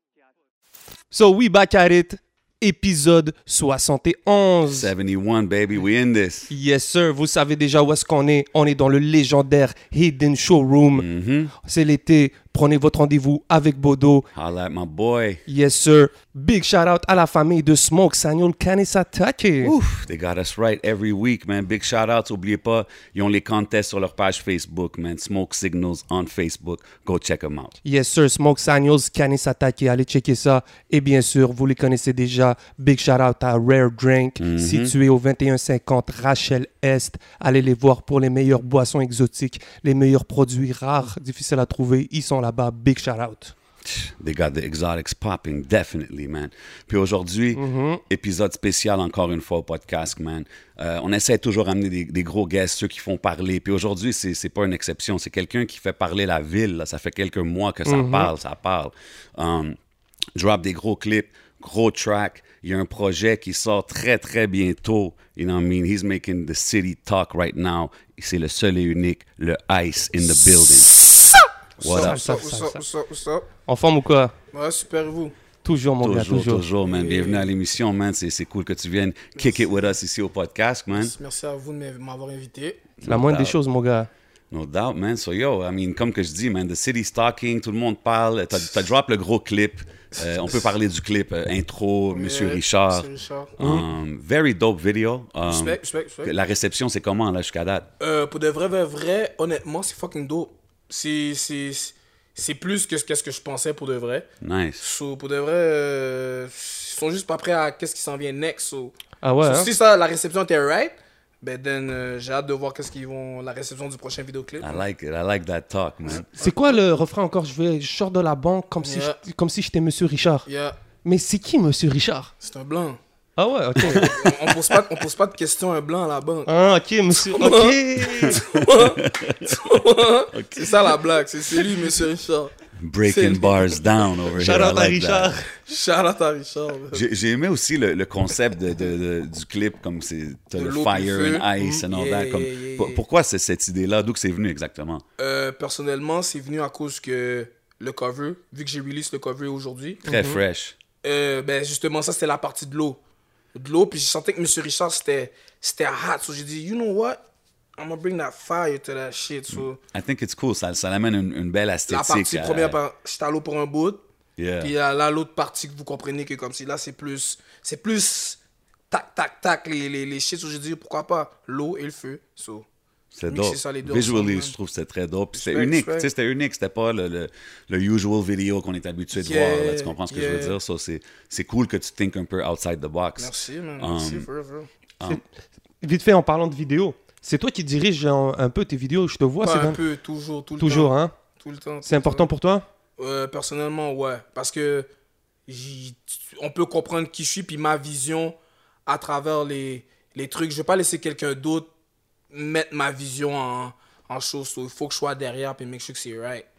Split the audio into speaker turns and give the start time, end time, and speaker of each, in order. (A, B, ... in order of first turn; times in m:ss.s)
0:01.1-0:04.9 A
0:04.7-0:06.5 B
0:06.5-0:11.1 A
0:11.0-0:11.5 B
0:11.6-0:14.3 A
0:14.3-0:15.4 B
0:15.5-0:19.7 A
0:19.6-0:27.8 B
0:27.8-0:43.5 A
0:34.4-0:34.9 B
0:43.8-0:59.8 B
0:47.6-0:48.0 A
0:57.9-0:58.3 A
1:00.4-1:10.9 B
1:11.8-1:13.5 C
1:11.8-1:12.2 B
1:11.9-1:12.8 A
1:13.7-1:14.4 A
1:14.5-1:15.4 C
1:15.6-1:16.7 A
1:16.0-1:21.1 B
1:16.8-1:17.5 C
1:19.4-1:19.8 C
1:20.9-1:22.9 C
1:23.0-1:23.6 B
1:23.0-1:24.1 A
1:24.5-1:37.9 B
1:32.1-1:33.6 C
1:35.4-1:36.3 C
1:38.0-1:44.3 C
1:44.4-1:44.8 B
1:44.8-1:54.8 C
1:49.2-1:49.7 A
1:54.6-1:56.3 B
1:56.1-1:56.6 C
1:56.4-2:00.5 A
1:58.8-1:59.2 C
2:00.5-2:00.8 C
2:01.0-2:02.3 A
2:02.4-2:03.0 C
2:03.4-2:04.1 A
2:03.8-2:06.5 C
2:03.9-2:04.8 B
2:06.5-2:08.4 A
2:07.1-2:12.5 C
2:08.2-2:09.6 B
2:10.3-2:11.0 B
2:12.8-2:15.3 B
2:13.1-2:13.8 C
2:14.4-2:15.5 A
2:15.6-2:17.0 C
2:16.9-2:25.0 B
2:20.6-2:23.0 C
2:25.2-2:30.0 C
2:30.0-2:30.8 B
2:30.0-2:30.4 A
2:31.0-2:33.0 C
2:33.5-2:37.2 C
2:37.8-2:39.8 C
2:39.6-2:42.8 B
2:41.9-2:44.0 C
2:44.4-2:44.7 B
2:44.6-2:48.4 C
2:48.9-2:52.6 C
2:53.1-3:04.3 B
2:53.3-2:54.6 C
2:55.3-2:56.1 C
2:59.2-3:00.6 C
3:03.2-3:04.7 C
3:05.8-3:09.8 A
3:09.4-3:12.3 C
3:10.6-3:11.1 A
3:11.8-3:12.7 A
3:13.0-3:14.9 C
3:15.5-3:18.4 C
3:18.9-3:21.7 C
3:22.3-3:26.5 C